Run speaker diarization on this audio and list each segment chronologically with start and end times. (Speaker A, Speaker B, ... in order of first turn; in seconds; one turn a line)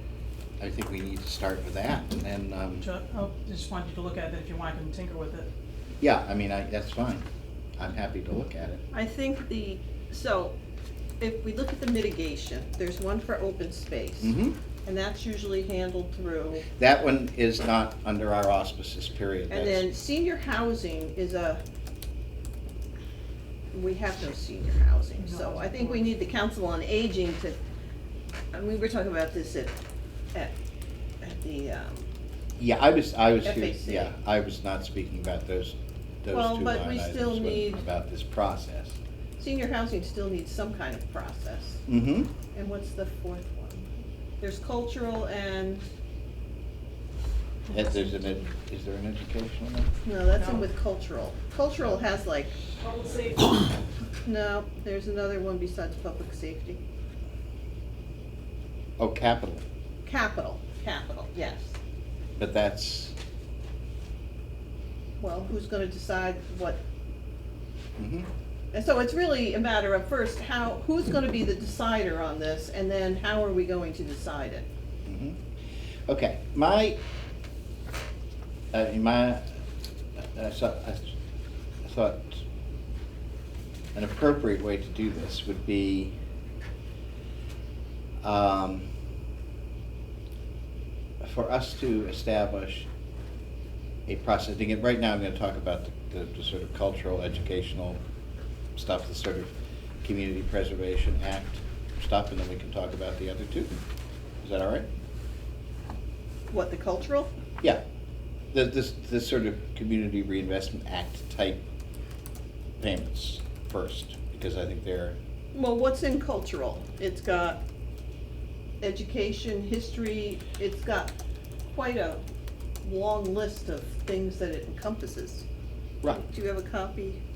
Speaker A: 0.6-2.8
Speaker B: 2.8-5.5
Speaker A: 6.0-7.2
Speaker A: 7.8-8.8
Speaker C: 8.9-10.5
Speaker C: 11.2-14.3
Speaker A: 14.2-14.6
Speaker C: 14.8-16.6
Speaker A: 16.8-19.9
Speaker C: 19.5-21.6
Speaker C: 23.7-27.6
Speaker B: 25.2-26.1
Speaker C: 28.5-29.7
Speaker C: 31.2-32.1
Speaker A: 32.6-39.0
Speaker C: 33.4-34.1
Speaker C: 36.3-37.8
Speaker C: 39.4-41.8
Speaker A: 41.9-42.3
Speaker C: 42.5-45.8
Speaker A: 47.7-49.9
Speaker C: 50.0-52.5
Speaker B: 50.4-50.6
Speaker B: 52.8-53.7
Speaker C: 54.2-56.8
Speaker A: 59.0-59.6
Speaker C: 60.0-61.8
Speaker A: 62.4-63.1
Speaker C: 65.2-66.8
Speaker A: 68.0-68.3
Speaker C: 68.7-74.7
Speaker A: 75.0-75.4
Speaker A: 76.1-77.0
Speaker A: 78.7-79.6
Speaker A: 80.2-81.1
Speaker A: 81.8-82.4
Speaker A: 83.9-86.1
Speaker A: 88.2-88.9
Speaker A: 91.2-92.9
Speaker A: 94.1-98.0
Speaker A: 98.7-103.7
Speaker A: 104.4-104.9
Speaker C: 106.5-107.3
Speaker A: 108.5-111.6
Speaker A: 112.8-115.2
Speaker C: 115.5-117.6
Speaker C: 118.8-121.1
Speaker C: 121.7-122.2
Speaker C: 122.8-125.4
Speaker C: 126.0-127.2